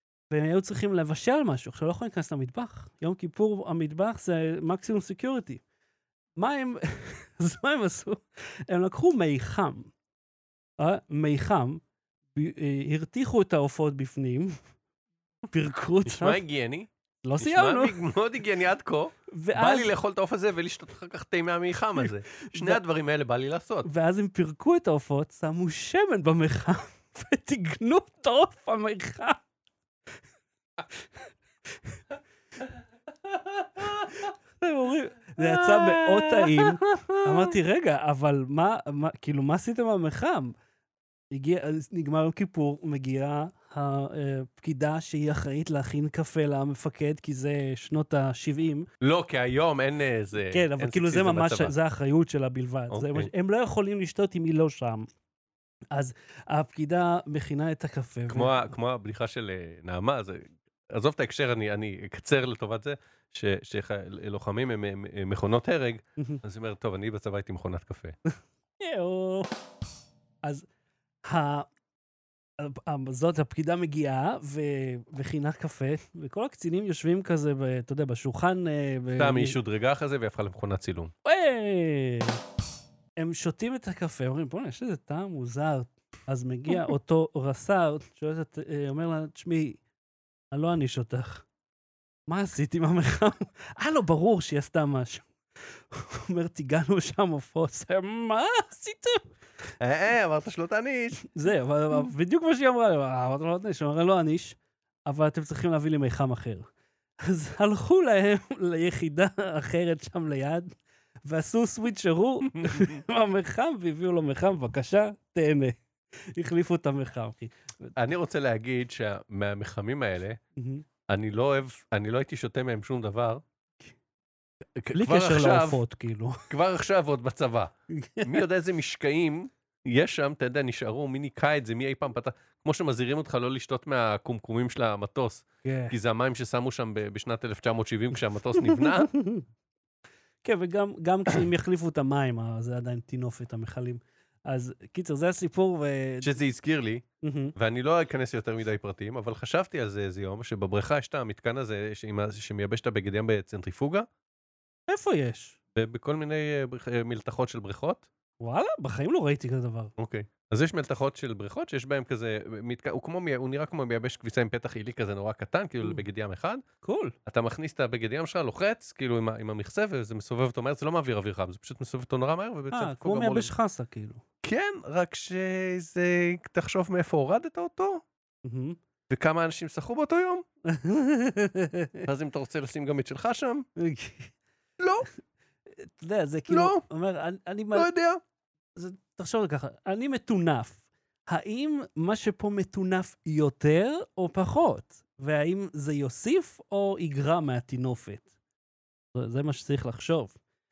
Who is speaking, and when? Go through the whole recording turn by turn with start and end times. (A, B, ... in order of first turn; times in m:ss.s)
0:00.3-0:05.6 A
0:06.4-0:09.9 A
0:10.8-0:11.8 A
0:12.3-0:14.6 A
0:15.5-0:16.4 A
0:16.0-0:23.9 B
0:17.2-0:18.0 A
0:19.3-0:19.9 A
0:22.0-0:22.8 A
0:23.8-0:29.4 A
0:33.7-0:34.2 B
0:34.2-0:40.5 A
0:35.4-0:37.5 B
0:41.3-0:48.9 A
0:49.0-0:51.7 B
0:50.4-0:55.1 A
0:52.9-0:53.3 B
0:55.9-0:58.6 A
0:58.3-1:08.2 B
1:08.8-1:09.5 A
1:11.2-1:11.7 A
1:12.6-1:19.6 A
1:19.1-1:21.1 B
1:21.2-1:22.4 A
1:23.2-1:29.8 A
1:30.5-1:31.4 A
1:32.3-1:39.3 A
1:39.8-1:41.2 B
1:41.2-1:46.6 A
1:47.2-1:57.9 A
1:52.5-1:53.0 B
1:58.0-2:00.4 B
2:00.6-2:00.8 A
2:01.1-2:03.4 B
2:04.8-2:05.8 B
2:04.9-2:06.5 A
2:06.5-2:07.7 B
2:07.9-2:08.4 A
2:08.2-2:19.1 B
2:15.6-2:16.0 A
2:18.6-2:19.4 A
2:20.4-2:26.4 A
2:26.2-2:34.1 B
2:27.2-2:27.5 A
2:34.9-2:35.6 A
2:35.7-2:38.1 B
2:38.4-2:39.9 A
2:40.0-2:46.6 B
2:46.8-2:47.1 A
2:47.2-2:53.5 B
2:52.7-2:54.2 A
2:54.4-2:58.0 B
2:58.4-2:58.8 A
2:59.1-3:00.4 B
3:00.6-3:02.1 A
3:02.0-3:03.7 B
3:03.8-3:04.3 A
3:04.8-3:05.1 B
3:05.8-3:07.9 A
3:06.5-3:06.8 B
3:07.7-3:08.2 B
3:08.7-3:18.3 A
3:19.1-3:20.4 A